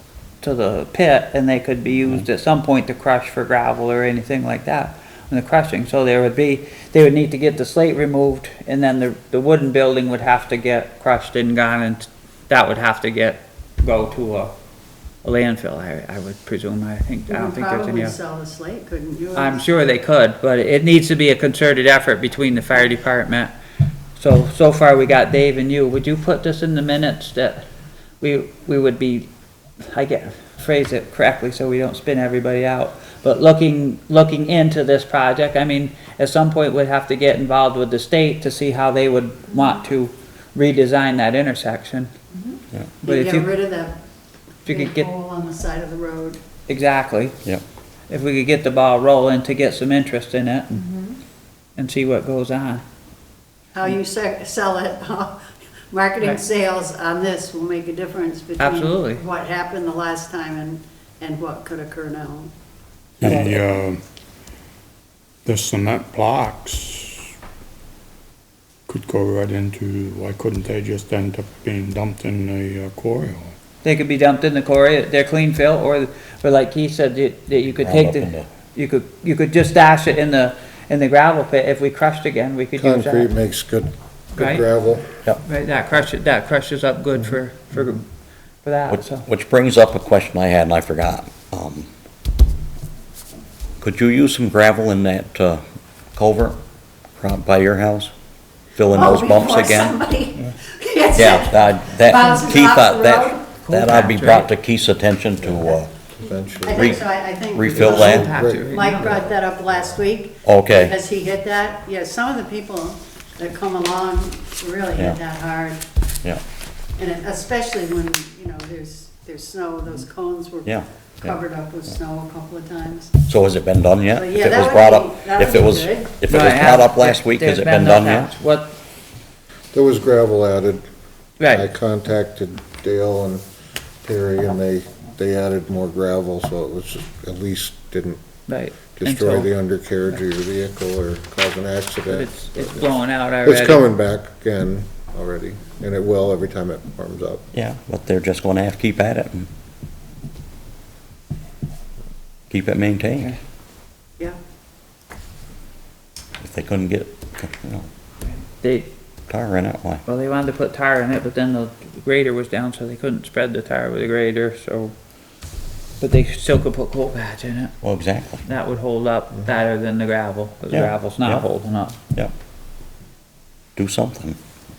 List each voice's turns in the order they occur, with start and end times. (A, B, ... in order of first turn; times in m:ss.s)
0:00.4-0:14.5 A
0:15.2-0:18.2 A
0:17.3-0:19.6 B
0:19.4-0:23.5 A
0:24.2-0:27.6 A
0:28.2-0:29.3 A
0:29.8-0:42.1 A
0:42.3-0:44.0 B
0:43.0-0:43.5 A
0:44.6-0:46.4 B
0:44.7-0:45.1 A
0:46.7-0:47.4 A
0:48.1-0:50.8 A
0:51.8-0:52.8 A
0:53.7-1:02.5 B
0:58.6-0:59.2 A
1:03.2-1:04.0 C
1:05.4-1:07.3 C
1:08.9-1:13.5 C
1:13.8-1:23.3 A
1:17.7-1:18.5 D
1:22.8-1:25.1 E
1:24.4-1:24.6 A
1:25.4-1:28.1 A
1:28.6-1:29.3 A
1:28.9-1:31.9 D
1:33.8-1:36.6 D
1:37.2-1:38.1 D
1:38.8-1:40.0 D
1:38.8-1:43.4 B
1:41.1-1:46.1 D
1:43.6-1:44.5 A
1:45.4-1:46.9 E
1:46.6-1:55.8 B
1:46.8-1:48.4 D
1:47.7-1:49.1 A
1:48.2-1:49.3 E
1:50.4-1:51.0 D
1:54.9-1:55.2 D
1:57.0-2:03.1 B
2:00.6-2:01.4 D
2:03.3-2:08.4 D
2:04.2-2:06.2 B
2:06.3-2:08.8 A
2:09.7-2:10.9 E
2:11.4-2:11.7 A
2:11.5-2:13.4 E
2:14.0-2:18.2 E
2:18.5-2:19.5 A
2:19.0-2:27.4 E
2:22.1-2:23.8 A
2:27.5-2:29.5 D
2:32.5-2:33.4 D
2:36.4-2:37.9 D
2:38.3-2:38.9 A
2:39.3-2:40.0 D
2:40.1-2:45.0 A
2:46.0-2:47.8 A
2:47.8-2:48.4 D
2:48.4-2:52.0 A
2:50.7-2:52.3 D
2:53.8-2:54.4 D